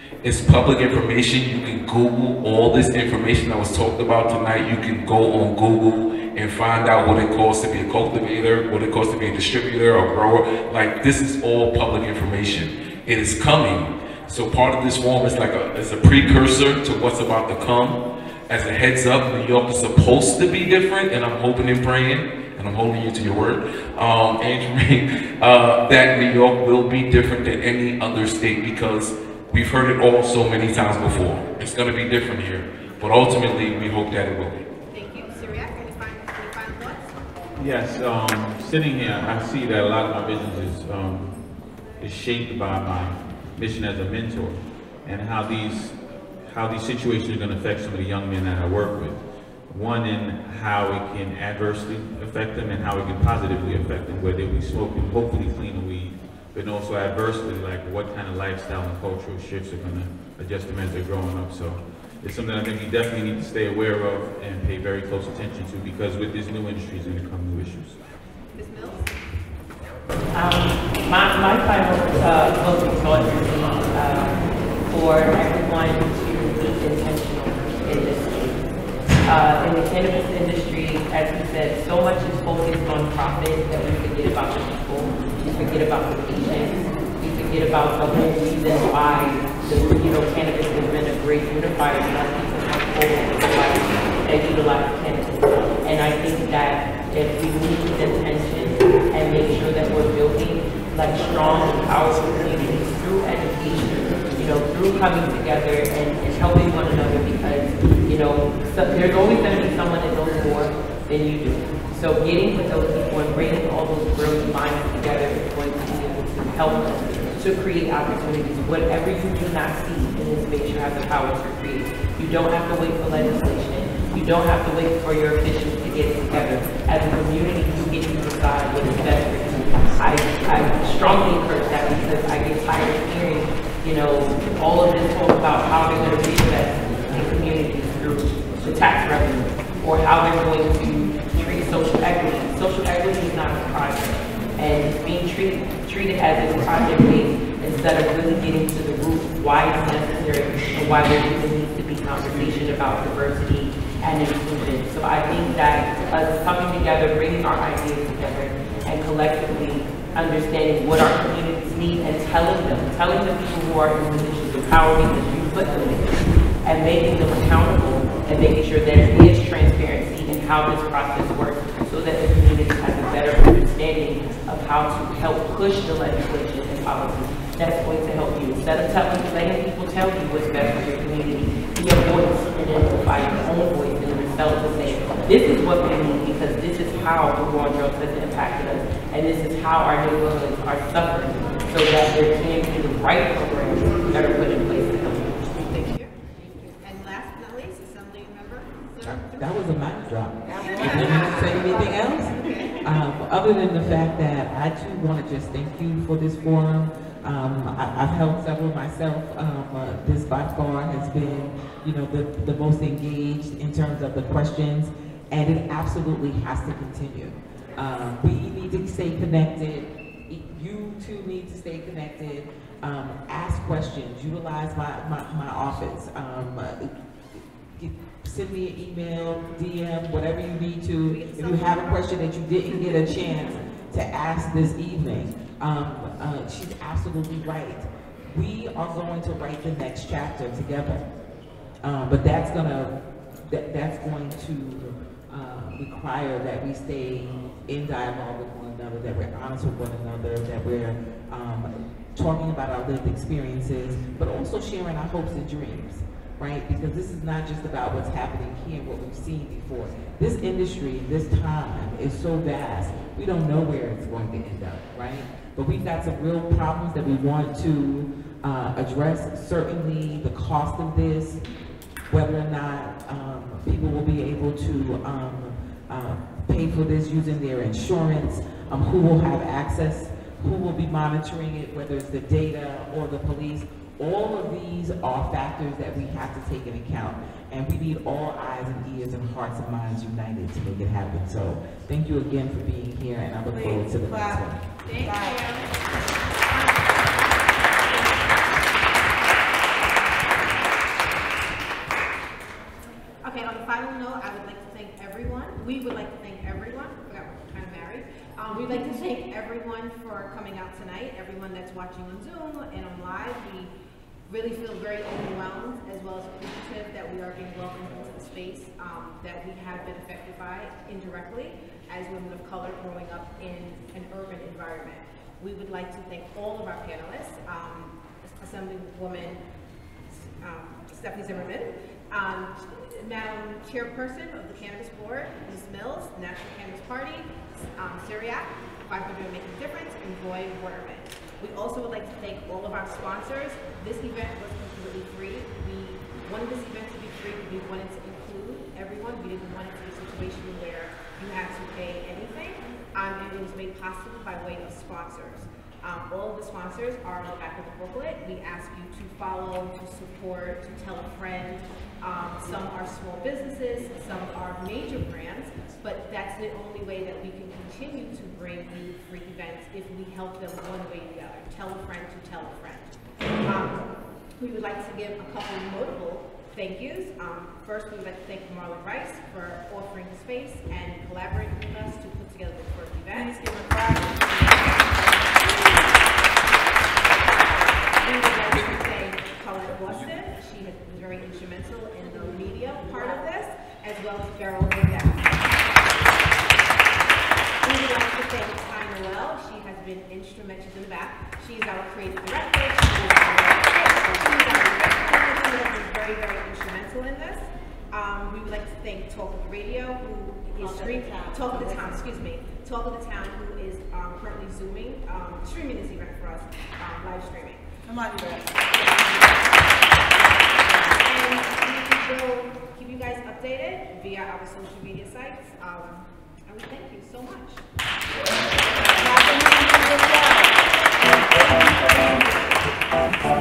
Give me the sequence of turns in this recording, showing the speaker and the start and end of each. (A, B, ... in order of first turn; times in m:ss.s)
0:00.2-0:18.0 A
0:18.5-0:34.6 A
0:34.9-0:37.1 B
0:37.6-0:41.3 C
0:42.0-1:07.9 C
1:08.5-1:09.1 B
1:10.3-1:18.6 D
1:19.2-3:15.4 D
3:15.4-3:19.5 B
3:19.0-3:46.9 E
3:20.5-3:22.8 F
3:20.6-3:22.7 B
3:47.8-4:01.0 E
3:51.0-3:52.2 B
3:52.7-3:53.1 B
4:01.8-4:31.4 E
4:32.1-4:54.6 E
4:53.5-4:55.6 F
4:54.8-4:55.8 B
4:56.4-4:57.0 B
5:03.2-5:13.7 B
5:08.6-5:09.1 F
5:14.3-5:29.4 B
5:30.1-6:12.9 B
6:13.4-6:13.8 B
6:14.4-6:26.1 B
6:23.2-6:24.2 F
6:27.1-6:36.1 B
6:37.6-6:57.6 B
6:50.5-6:52.0 F
6:57.8-6:58.8 F
6:58.7-6:59.5 B
7:00.6-7:07.6 B
7:08.8-7:09.5 B
7:08.9-7:10.5 F
7:11.4-7:12.2 F